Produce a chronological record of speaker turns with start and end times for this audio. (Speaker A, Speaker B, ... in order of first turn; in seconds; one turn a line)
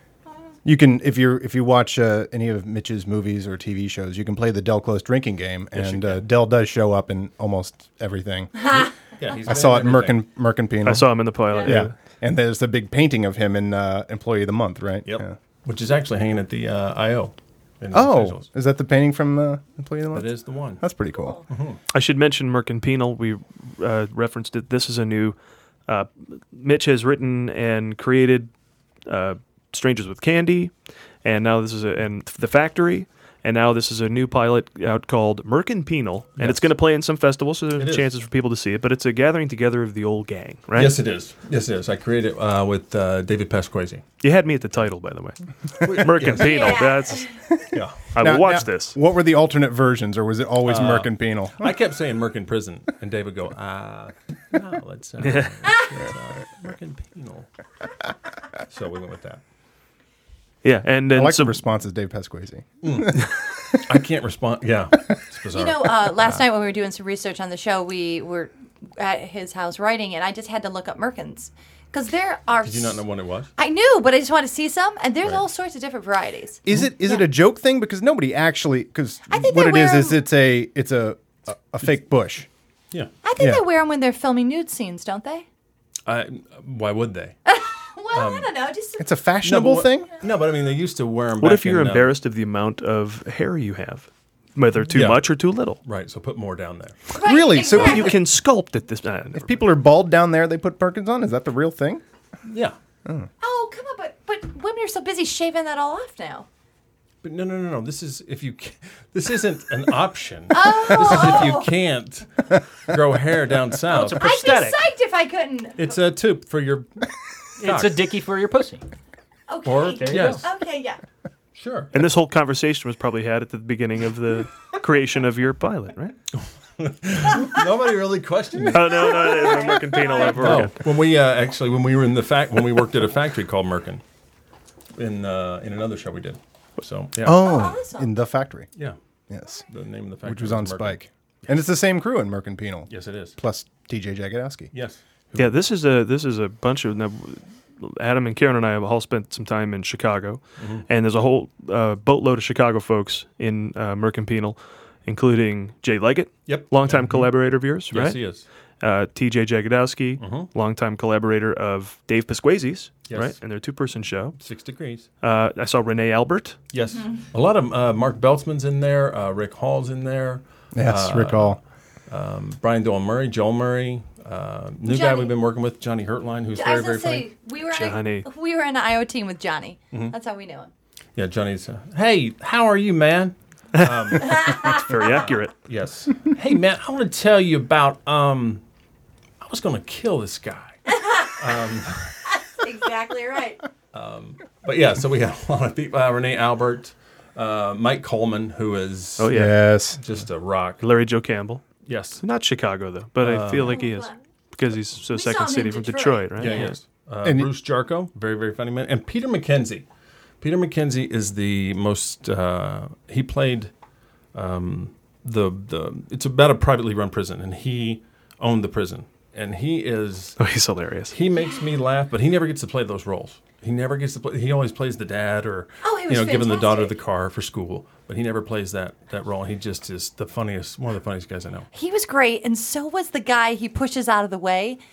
Speaker A: 0.6-8.8
Speaker B: 5.7-6.2
Speaker C: 8.6-8.9
Speaker B: 9.2-10.2
Speaker A: 9.4-15.3
Speaker D: 10.8-11.9
Speaker B: 15.1-18.4
Speaker A: 17.9-21.4
Speaker B: 20.1-20.8
Speaker C: 21.1-21.4
Speaker B: 21.5-21.8
Speaker D: 21.9-25.4
Speaker D: 25.9-28.5
Speaker D: 29.1-30.7
Speaker D: 31.2-41.0
Speaker B: 36.4-36.7
Speaker B: 37.8-38.1
Speaker B: 40.7-44.0
Speaker D: 44.2-47.3
Speaker B: 45.8-46.8
Speaker C: 46.4-47.3
Speaker B: 47.7-48.1
Speaker D: 48.1-49.0
Speaker A: 48.2-51.8
Speaker B: 50.6-57.5
Speaker D: 55.2-55.7
Speaker B: 58.7-59.4
Speaker D: 60.6-61.6
Speaker A: 61.1-63.3
Speaker B: 62.8-63.3
Speaker B: 63.8-66.4
Speaker C: 65.5-73.0
Speaker B: 72.6-73.5
Speaker C: 73.6-77.2
Speaker A: 76.7-82.5
Speaker C: 79.3-80.2
Speaker C: 83.2-85.5
Speaker A: 83.4-83.6
Speaker B: 86.1-87.4
Speaker C: 87.5-89.0
Speaker B: 88.1-88.5
Speaker A: 89.0-90.1
Speaker B: 89.4-92.1
Speaker D: 91.4-95.8
Speaker B: 94.9-95.2
Speaker B: 95.8-97.1
Speaker C: 97.1-98.1
Speaker A: 97.2-98.2
Speaker D: 97.7-99.6
Speaker A: 99.3-102.0
Speaker B: 102.5-102.8
Speaker C: 103.4-106.5
Speaker B: 107.2-114.3
Speaker C: 110.5-111.7
Speaker E: 113.9-114.8
Speaker C: 114.1-116.0
Speaker B: 115.8-117.0
Speaker E: 117.6-118.8
Speaker B: 117.6-118.0
Speaker C: 119.5-121.0
Speaker B: 119.6-120.5
Speaker E: 119.9-120.4
Speaker B: 121.5-121.9
Speaker D: 121.9-126.2
Speaker B: 126.3-129.4
Speaker D: 128.7-130.8
Speaker C: 128.9-130.7
Speaker B: 130.2-134.0
Speaker B: 134.9-137.5
Speaker A: 137.2-138.7
Speaker C: 137.4-138.1
Speaker A: 139.3-139.6
Speaker B: 139.6-141.6
Speaker A: 140.2-144.7
Speaker B: 142.9-143.4
Speaker B: 144.7-145.6
Speaker D: 145.3-158.2
Speaker B: 150.6-150.9
Speaker B: 156.5-157.3
Speaker B: 157.9-158.4
Speaker D: 158.8-164.4
Speaker B: 160.2-160.5
Speaker B: 163.1-163.4
Speaker B: 164.4-165.1
Speaker D: 165.2-166.6
Speaker B: 166.7-177.3
Speaker A: 170.7-171.6
Speaker C: 174.9-175.3
Speaker C: 176.6-180.7
Speaker D: 177.7-178.3
Speaker B: 181.2-188.6
Speaker D: 183.8-185.5
Speaker C: 184.3-185.2
Speaker B: 189.4-192.2
Speaker C: 192.6-193.6
Speaker B: 193.9-199.3
Speaker D: 199.2-199.6
Speaker A: 199.3-200.0
Speaker B: 199.9-200.8
Speaker D: 200.8-206.8
Speaker B: 201.8-202.2
Speaker B: 203.2-203.8
Speaker C: 203.6-204.2
Speaker C: 205.1-206.5
Speaker B: 206.4-209.8
Speaker A: 207.2-207.5
Speaker B: 210.4-213.7
Speaker B: 214.3-220.4
Speaker D: 220.4-221.1
Speaker B: 221.1-231.7
Speaker C: 225.8-226.9
Speaker C: 231.7-234.8